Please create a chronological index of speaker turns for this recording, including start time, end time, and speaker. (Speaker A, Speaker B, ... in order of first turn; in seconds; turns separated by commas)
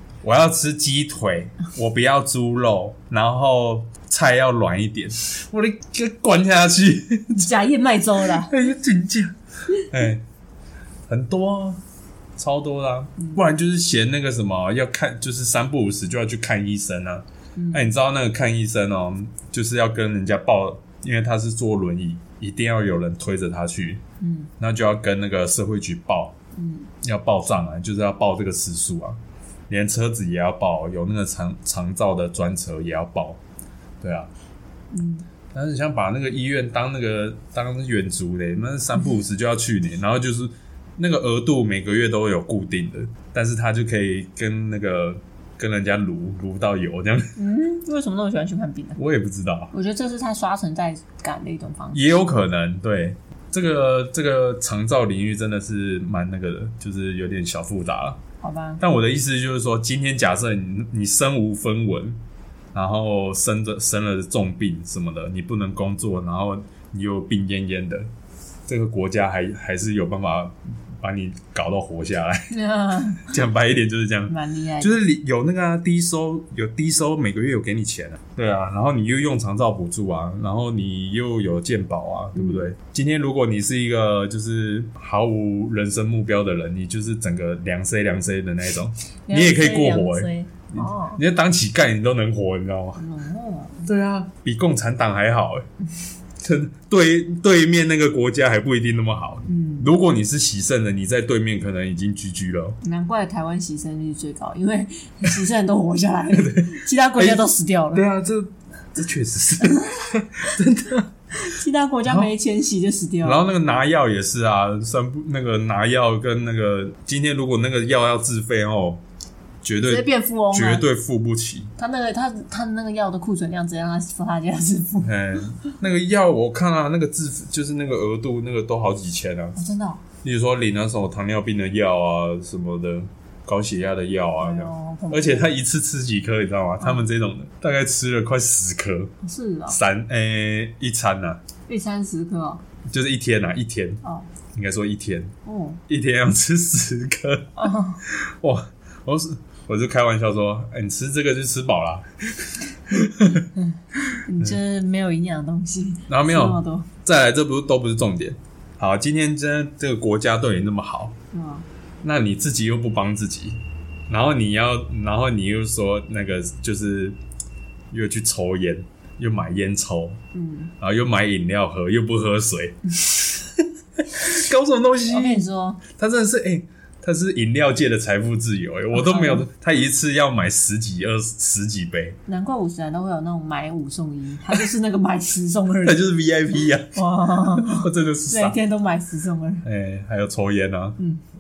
Speaker A: 0.2-7.5, Speaker B: 7.3-8.6, Speaker A: 8.3-10.2, Speaker A: 11.1-11.8, Speaker A: 12.4-24.0, Speaker B: 17.6-17.9, Speaker B: 24.2-24.5, Speaker A: 24.6-26.4, Speaker B: 26.6-26.9, Speaker A: 27.0-33.4, Speaker A: 34.0-34.3, Speaker B: 34.9-35.2, Speaker A: 35.5-47.4, Speaker B: 47.4-49.0, Speaker A: 49.0-49.7, Speaker B: 49.7-52.1, Speaker A: 51.9-58.2, Speaker B: 58.4-58.8, Speaker A: 58.8-62.2, Speaker A: 62.7-68.1, Speaker A: 68.7-72.5, Speaker B: 72.5-73.3, Speaker A: 73.1-93.0, Speaker B: 74.3-75.0, Speaker B: 82.3-82.7, Speaker B: 89.3-91.2, Speaker B: 93.0-93.9, Speaker A: 93.8-95.7, Speaker A: 96.4-102.8, Speaker B: 99.5-99.9, Speaker B: 102.8-108.0, Speaker A: 106.3-111.1, Speaker B: 111.4-113.5, Speaker A: 112.1-112.3, Speaker A: 113.2-119.0, Speaker A: 119.6-121.7, Speaker B: 119.9-120.9, Speaker B: 121.8-125.2, Speaker A: 125.0-129.6, Speaker B: 129.6-130.0, Speaker A: 130.2-139.1, Speaker B: 134.4-135.5, Speaker B: 139.2-139.8, Speaker A: 139.7-141.4, Speaker B: 141.7-142.6, Speaker A: 142.9-144.0, Speaker A: 144.5-145.3, Speaker B: 145.4-145.8, Speaker A: 145.9-147.6, Speaker B: 147.6-148.0, Speaker A: 148.1-153.5, Speaker B: 154.2-156.9, Speaker A: 156.1-161.2, Speaker B: 161.3-161.7, Speaker A: 162.0-167.2, Speaker A: 167.9-170.2, Speaker B: 170.3-170.7, Speaker A: 170.8-173.4, Speaker A: 174.0-182.2, Speaker B: 175.1-175.8, Speaker B: 178.9-179.4, Speaker B: 182.3-186.1, Speaker A: 185.8-188.6, Speaker B: 186.8-189.7, Speaker A: 189.6-191.0